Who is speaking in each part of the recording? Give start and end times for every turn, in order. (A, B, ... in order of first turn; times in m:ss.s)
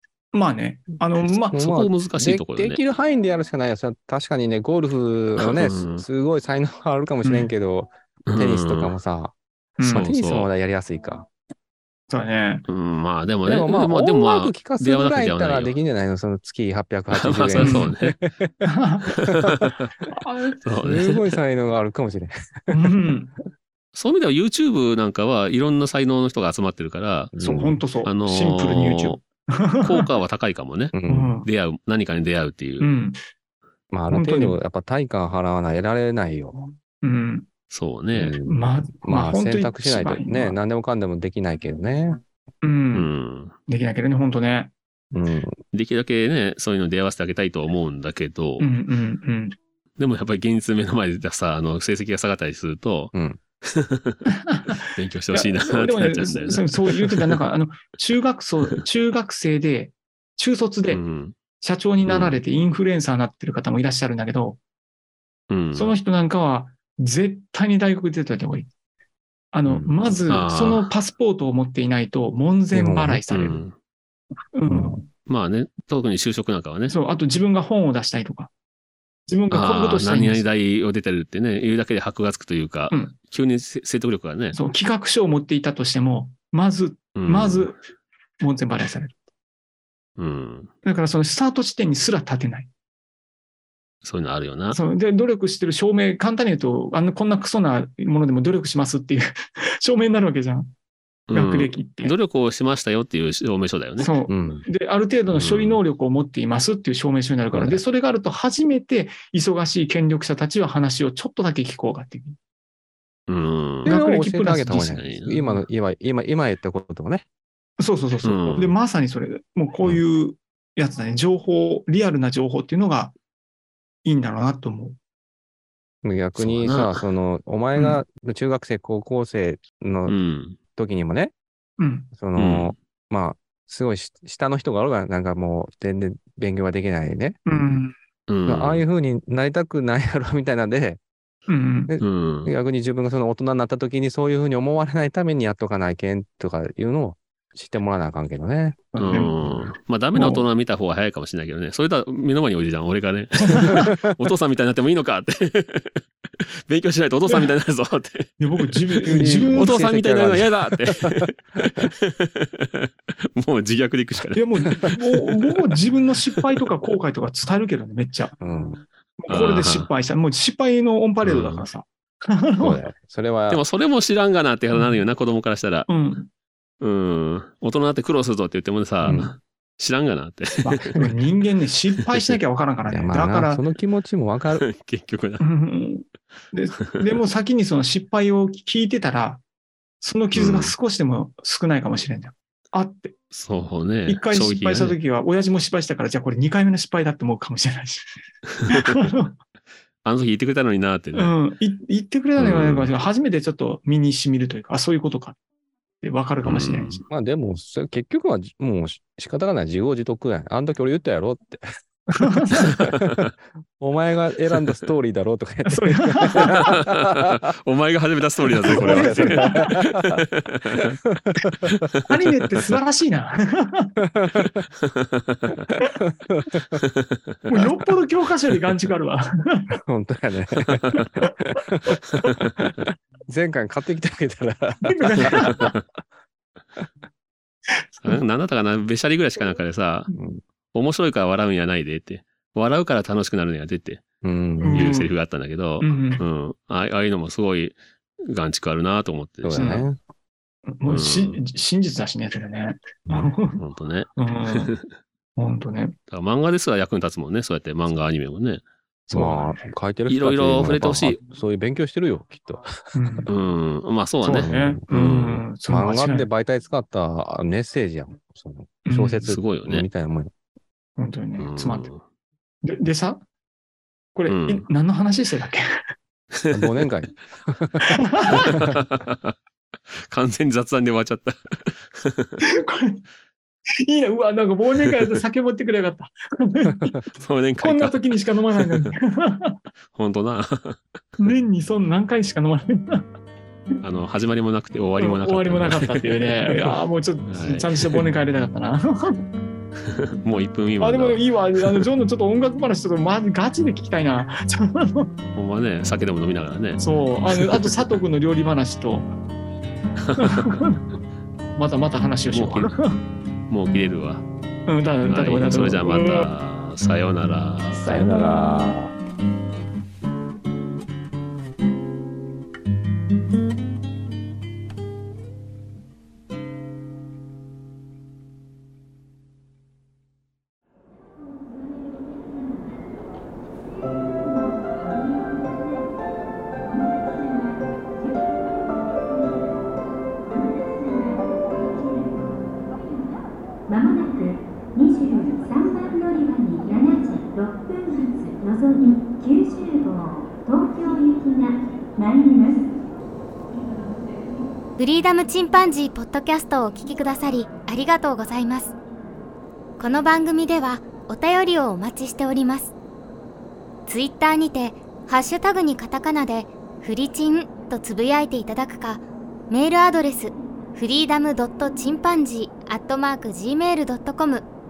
0:00.3-0:01.6 A
0:01.2-0:11.3 B
0:01.5-0:02.8 C
0:05.4-0:06.0 C
0:07.2-0:07.5 A
0:08.3-0:08.9 C
0:09.8-0:10.1 A
0:09.9-0:10.5 C
0:12.1-0:12.6 A
0:12.7-0:15.8 C
0:13.4-0:18.7 B
0:17.1-0:18.2 C
0:17.6-0:17.9 A
0:18.6-0:19.1 A
0:19.4-0:19.9 C
0:20.1-0:20.6 A
0:20.6-0:21.3 C
0:20.8-0:22.9 B
0:22.7-0:23.3 A
0:23.9-0:27.3 C
0:27.3-0:27.8 B
0:27.4-0:30.1 A
0:28.0-0:29.2 C
0:29.8-0:30.9 C
0:30.9-0:31.4 B
0:31.1-0:31.5 A
0:31.4-0:32.9 C
0:32.8-0:33.2 A
0:33.9-0:36.7 B
0:34.1-0:34.6 A
0:37.0-0:37.5 A
0:37.7-0:38.3 C
0:38.1-0:42.2 B
0:38.4-0:40.6 A
0:42.6-0:43.1 A
0:42.9-0:43.5 C
0:43.7-0:44.7 A
0:45.1-0:45.6 B
0:45.7-0:48.7 C
0:48.6-0:49.6 A
0:50.0-0:57.4 C
0:53.1-0:53.4 B
0:54.3-1:01.0 A
1:00.9-1:01.4 C
1:01.6-1:04.6 A
1:02.0-1:02.4 C
1:05.5-1:05.9 C
1:05.7-1:08.7 A
1:09.5-1:13.6 A
1:10.3-1:10.9 C
1:12.7-1:13.2 B
1:13.3-1:13.7 C
1:14.5-1:15.1 A
1:14.7-1:15.0 B
1:15.2-1:17.0 C
1:16.9-1:18.5 A
1:19.3-1:20.4 A
1:19.5-1:24.6 C
1:24.5-1:27.8 A
1:27.1-1:27.7 C
1:28.4-1:29.2 A
1:30.2-1:30.7 C
1:30.8-1:32.7 A
1:34.0-1:34.8 C
1:34.7-1:40.7 A
1:41.3-1:44.5 C
1:41.3-1:42.2 A
1:44.0-1:52.4 A
1:44.3-1:44.6 B
1:45.3-1:45.8 C
1:47.5-1:47.8 B
1:53.3-1:54.0 C
1:53.8-1:57.2 B
1:53.8-1:55.6 A
1:54.7-1:55.4 C
1:57.8-2:03.1 A
1:58.2-1:58.8 C
2:04.0-2:05.0 A
2:06.0-2:10.2 B
2:06.4-2:07.0 C
2:07.7-2:08.0 A
2:10.1-2:10.6 C
2:10.7-2:11.3 B
2:11.8-2:12.1 A
2:12.1-2:17.4 B
2:12.4-2:12.7 C
2:17.4-2:17.9 A
2:18.3-2:18.8 C
2:18.5-2:21.0 B
2:21.5-2:21.9 A
2:21.9-2:28.9 B
2:22.0-2:22.5 C
2:28.9-2:30.4 A
2:29.0-2:44.9 C
2:33.4-2:33.9 A
2:38.4-2:39.8 A
2:39.1-2:41.9 B
2:44.3-2:48.4 A
2:48.4-2:48.8 B
2:49.2-2:52.8 A
2:49.3-2:49.9 C
2:51.2-2:51.6 C
2:52.6-2:53.6 B
2:53.5-2:55.9 C
2:55.9-2:56.3 A
2:56.8-3:01.0 C
2:59.0-2:59.3 B
3:00.6-3:03.6 A
3:02.1-3:02.3 C
3:02.8-3:04.6 B
3:04.6-3:05.4 C
3:05.4-3:09.4 A
3:10.0-3:13.2 A
3:10.3-3:10.8 C
3:13.3-3:15.0 C
3:14.1-3:19.4 A
3:18.7-3:19.1 C
3:20.0-3:21.3 C
3:21.1-3:25.4 A
3:22.4-3:22.9 C
3:26.0-3:27.0 A
3:26.4-3:27.0 C
3:27.1-3:31.6 B
3:32.1-3:32.8 A
3:32.5-3:37.3 B
3:32.5-3:33.3 C
3:35.7-3:36.7 A
3:36.3-3:40.9 C
3:38.7-3:40.2 B
3:38.7-3:39.7 A
3:41.0-3:41.7 B
3:41.6-3:42.0 C
3:42.0-3:43.9 A
3:44.0-3:44.6 B
3:44.8-3:45.6 C
3:46.2-3:46.8 B
3:46.7-3:47.5 C
3:47.5-3:49.8 A
3:49.7-3:55.8 B
3:52.1-3:52.5 C
3:54.8-3:55.7 A
3:55.5-3:55.8 C
3:57.7-3:58.2 A
3:58.0-4:00.1 C
4:00.1-4:00.4 B
4:00.7-4:04.0 C
4:04.2-4:04.9 B
4:04.6-4:05.1 A
4:04.7-4:09.7 C
4:05.8-4:06.2 A
4:09.4-4:10.0 B
4:09.5-4:09.9 A
4:10.7-4:13.6 A
4:10.8-4:11.4 C
4:13.1-4:13.3 B
4:13.6-4:14.2 C
4:14.2-4:14.7 A
4:15.4-4:15.9 A
4:16.1-4:18.6 C
4:19.1-4:19.7 A
4:19.1-4:23.3 B
4:20.1-4:21.2 C
4:22.9-4:23.3 A
4:23.3-4:25.4 C
4:24.2-4:26.3 A
4:24.3-4:24.8 B
4:25.6-4:30.3 B
4:28.8-4:29.3 A
4:29.2-4:29.8 C
4:31.0-4:31.9 A
4:31.4-4:32.0 C
4:32.6-4:33.2 A
4:34.1-4:35.8 A
4:34.3-4:34.6 C
4:36.5-4:38.7 B
4:37.8-4:38.6 A
4:38.3-4:39.4 C
4:39.9-4:42.4 C
4:42.4-4:43.0 A
4:43.8-4:47.0 A
4:47.2-4:48.2 C
4:47.6-4:49.6 A
4:49.9-4:51.0 C
4:51.2-4:53.0 A
4:53.8-4:58.0 C
4:55.0-4:59.2 A
4:59.8-5:01.8 C
5:00.8-5:05.1 A
5:05.3-5:07.7 C
5:06.8-5:09.1 A
5:10.0-5:10.6 C
5:10.2-5:10.8 A
5:11.6-5:13.0 A
5:12.3-5:12.7 C
5:13.5-5:14.2 C
5:14.7-5:16.3 A
5:15.0-5:17.9 C
5:17.8-5:18.7 A
5:17.8-5:18.9 B
5:34.6-5:35.3 D
5:36.8-5:38.2 D
5:40.3-5:43.2 D
5:43.7-5:52.7 D
5:54.8-5:58.7 E
5:59.8-6:02.7 E
6:03.9-6:14.5 E